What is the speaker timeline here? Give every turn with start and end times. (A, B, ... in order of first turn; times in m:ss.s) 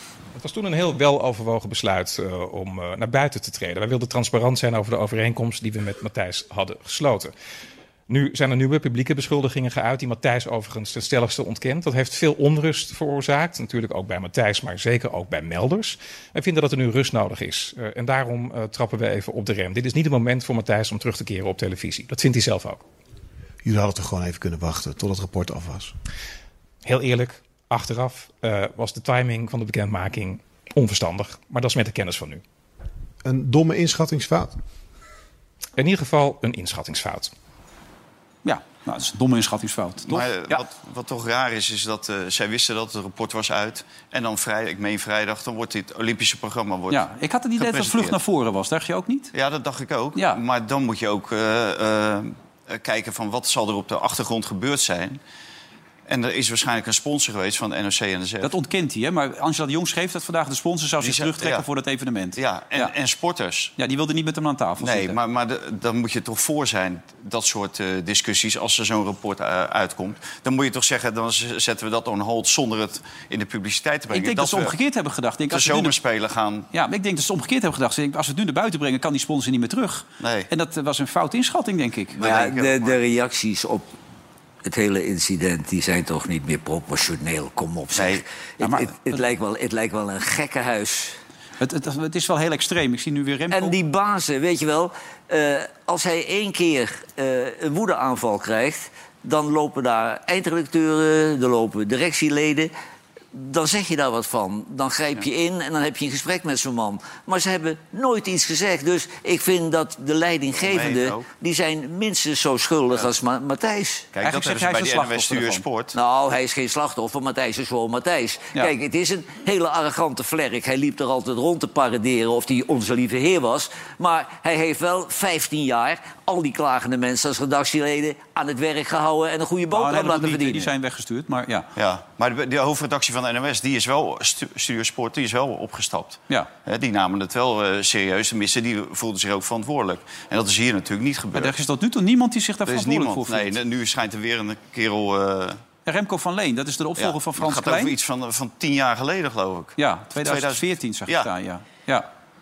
0:00.4-0:07.3 A
0:08.1-0:22.8 A
0:23.6-0:25.9 B
0:26.8-0:32.4 A
0:33.2-0:34.6 B
0:35.8-0:37.3 A
0:38.4-0:40.6 C
0:40.1-0:47.0 D
0:46.9-0:49.3 C
0:47.6-0:48.2 D
0:49.3-0:55.2 D
0:50.2-0:50.4 C
0:56.1-0:58.5 D
0:58.4-1:02.9 C
1:01.0-1:01.7 D
1:02.4-1:03.7 D
1:03.8-1:05.2 C
1:04.8-1:14.8 D
1:14.1-1:16.0 C
1:15.5-1:16.7 D
1:16.7-1:22.4 C
1:20.2-1:20.5 D
1:22.2-1:23.9 E
1:22.2-1:23.0 D
1:24.6-1:31.2 E
1:28.0-1:28.2 D
1:28.6-1:29.2 C
1:31.6-1:33.8 C
1:33.5-1:42.7 E
1:43.3-1:54.1 E
1:50.6-1:51.3 D
1:54.1-1:56.0 D
1:54.2-1:55.6 C
1:55.9-2:10.7 E
2:09.7-2:11.7 C
2:11.8-2:21.6 D
2:21.4-2:23.6 C
2:22.7-2:25.6 D
2:25.9-2:27.9 C
2:27.0-2:31.3 D
2:29.8-2:32.1 C